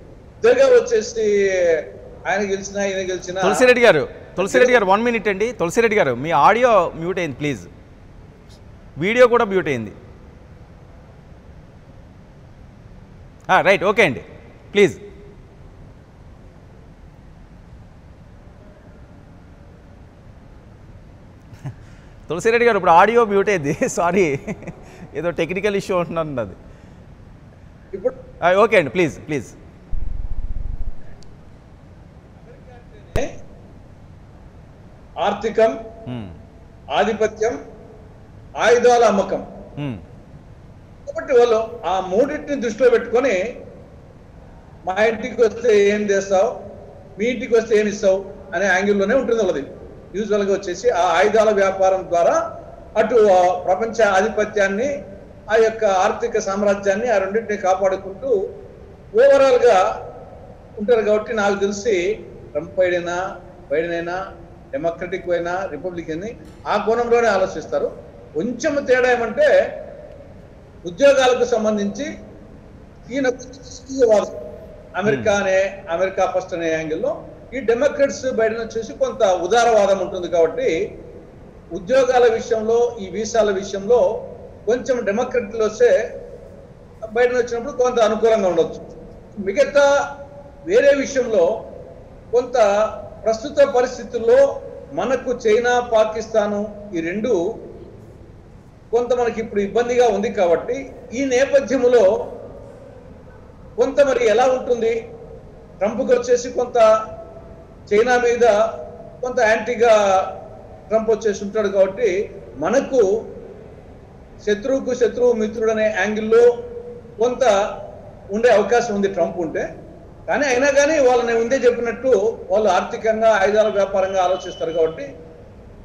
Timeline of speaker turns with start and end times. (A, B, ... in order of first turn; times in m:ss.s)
0:00.4-0:03.7 A
0:03.4-0:07.7 B
0:04.4-0:04.8 A
0:09.0-0:09.9 B
0:13.5-0:15.0 B
0:22.3-0:26.6 B
0:28.4-0:29.5 B
0:32.4-0:33.3 A
0:35.2-0:35.8 A
0:36.1-0:36.4 B
0:36.9-0:37.6 A
0:38.6-0:39.4 A
0:41.1-0:43.4 A
0:44.9-0:46.5 A
0:47.2-0:52.4 A
0:53.0-0:54.9 A
0:55.5-0:58.3 A
0:59.2-0:59.8 A
1:00.8-1:02.0 A
1:02.5-1:03.2 A
1:03.7-1:04.2 A
1:04.7-1:09.5 A
1:10.8-1:12.1 A
1:13.1-1:14.3 A
1:15.0-1:20.7 A
1:21.7-1:24.0 A
1:24.7-1:25.9 A
1:27.1-1:28.8 A
1:29.4-1:29.8 A
1:30.7-1:31.5 A
1:32.3-1:32.6 A
1:33.2-1:34.4 A
1:35.0-1:37.4 A
1:38.9-1:42.1 A
1:43.8-1:45.0 A
1:45.8-1:46.8 A
1:47.9-1:48.5 A
1:49.2-1:49.9 A
1:50.9-1:53.0 A
1:54.4-1:56.4 A
1:57.2-1:57.5 A
1:58.3-1:59.6 A
2:00.3-2:05.1 A